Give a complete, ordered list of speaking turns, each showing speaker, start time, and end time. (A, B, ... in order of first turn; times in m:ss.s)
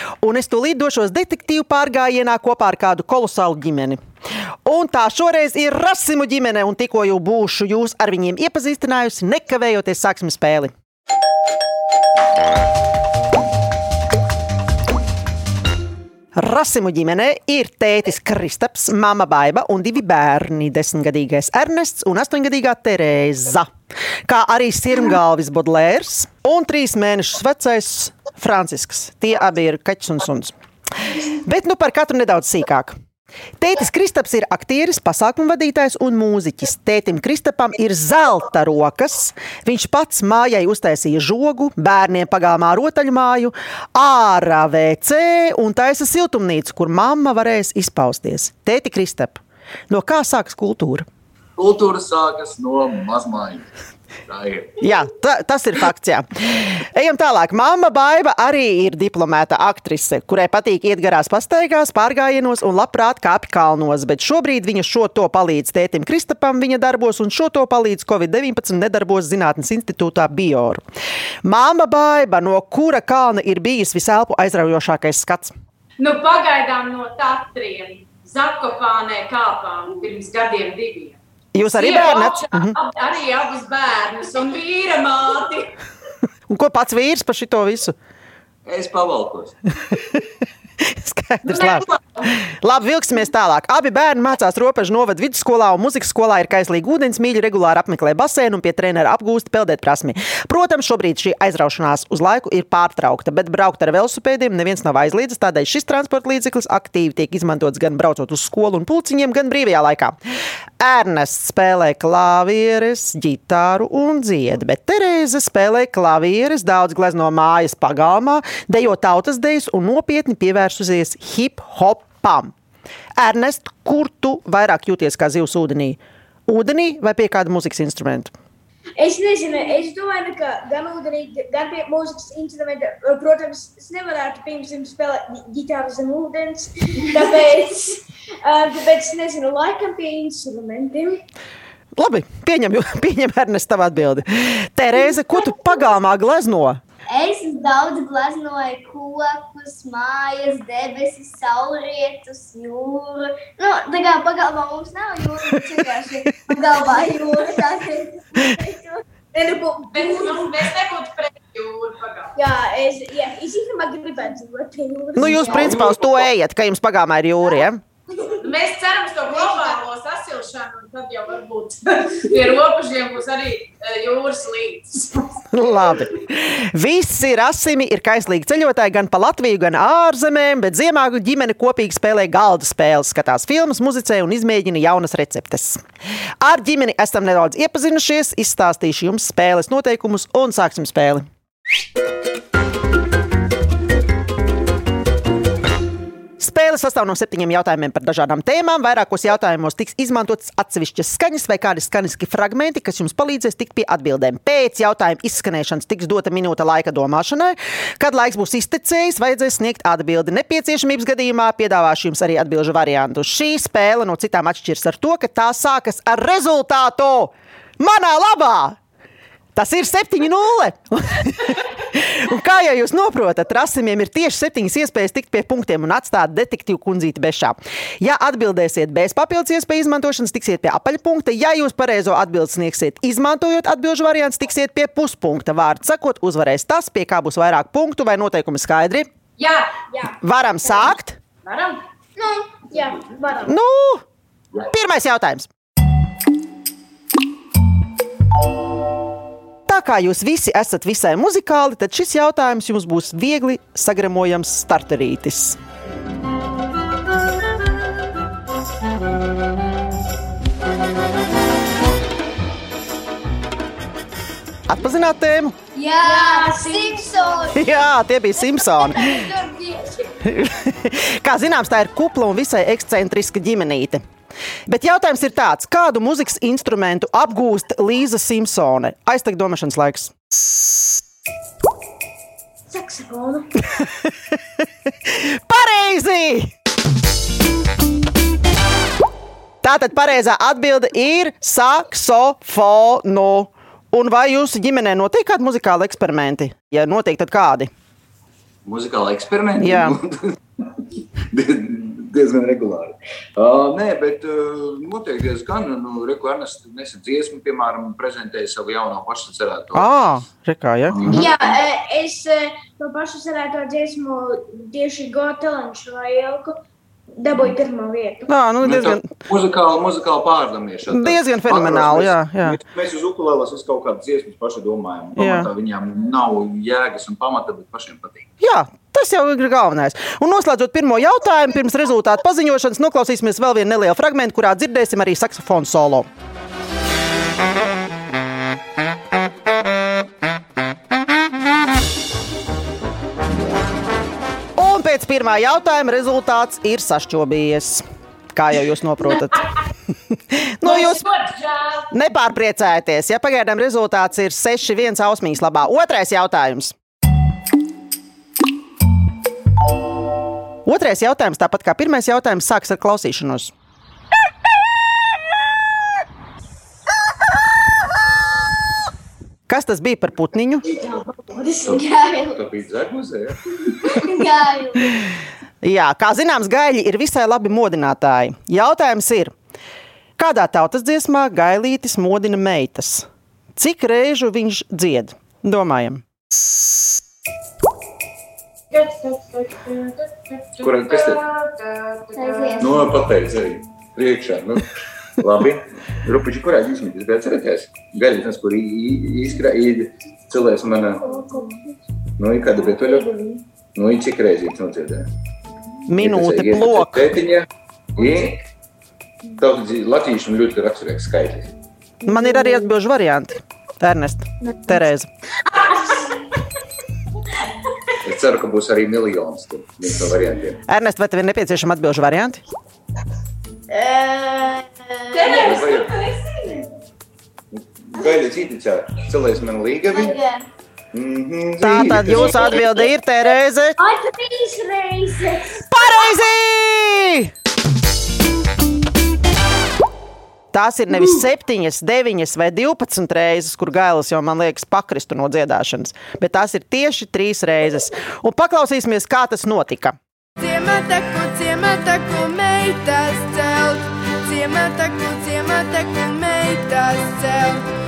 0:00.2-0:04.0 A
0:04.6-0:10.7 A
0:16.3-0:23.7 A
0:24.2-0:30.5 A
0:31.1-0:33.0 A
0:33.6-0:51.1 A
0:51.6-0:53.7 B
0:54.2-0:54.8 B
0:54.8-1:10.8 A
1:11.4-1:15.5 A
1:16.0-1:25.7 C
1:21.5-1:22.8 A
1:26.5-1:28.0 A
1:28.6-1:29.5 B
1:30.8-1:50.2 A
1:31.4-1:32.3 C
1:50.8-2:02.5 A
2:03.2-2:08.3 A
2:09.0-2:21.2 D
2:22.0-2:26.8 A
2:27.1-2:39.0 E
2:39.3-2:40.5 D
2:39.9-2:42.3 C
2:42.4-2:45.6 D
2:45.1-2:47.8 A
2:45.2-2:45.6 E
2:45.5-2:46.3 B
2:48.4-2:55.4 C
2:55.5-3:05.8 A
3:06.4-3:11.3 A
3:16.4-3:38.8 A
3:39.5-3:59.1 A
3:59.4-3:59.7 C
3:59.9-4:00.9 D
4:00.2-4:01.2 A
4:01.4-4:01.8 C
4:02.2-4:03.6 D
4:03.4-4:04.0 A
4:04.6-4:05.5 A
4:09.7-4:15.6 A
4:24.7-4:25.5 A
4:25.7-4:27.7 E
4:26.0-4:27.6 D
4:27.5-4:29.3 A
4:28.7-4:29.7 E
4:29.1-4:29.6 D
4:30.2-4:34.0 A
4:34.7-4:40.1 A
4:42.7-4:43.5 D
4:45.0-4:46.5 A
4:49.6-4:57.7 A
4:58.6-5:00.8 B
4:59.6-5:00.0 A
5:01.3-5:09.9 B
5:09.7-5:11.3 A
5:10.9-5:11.3 B
5:11.1-5:16.5 D
5:17.2-5:18.3 D
5:18.3-5:19.1 A
5:18.6-5:28.3 B
5:20.9-5:22.6 A
5:25.2-5:25.5 A
5:28.4-5:36.1 A
5:44.6-5:49.4 A
5:49.1-5:49.4 C
5:50.3-5:51.0 A
5:50.6-5:51.9 C
5:51.9-5:56.7 A
6:00.6-6:03.5 A
6:09.5-6:10.6 A
6:10.9-6:11.6 D
6:11.4-6:12.4 E
6:11.6-6:13.7 B
6:13.8-6:15.0 E
6:15.6-6:19.3 A
6:20.2-6:26.0 A
6:28.7-6:32.6 C
6:30.6-6:31.2 B
6:32.1-6:32.9 E
6:32.6-6:34.6 B
6:35.2-6:41.0 B
6:41.0-6:41.6 D
6:42.2-6:43.0 B
6:43.0-6:43.4 D
6:43.7-6:45.1 B
6:45.9-6:47.2 A
6:46.0-6:48.4 B
6:49.4-6:51.5 B
6:52.0-6:55.1 A
6:52.1-6:52.7 D
6:58.0-7:00.6 B
7:00.7-7:02.4 A
7:03.7-7:05.6 E
7:05.1-7:05.8 C
7:05.1-7:06.6 D
7:05.4-7:05.9 B
7:07.5-7:10.2 B
7:09.9-7:10.4 E
7:10.9-7:12.5 B
7:11.6-7:13.8 A
7:12.3-7:12.8 E
7:13.8-7:15.7 D
7:15.7-7:17.3 A
7:20.5-7:30.0 A
7:30.4-7:37.6 F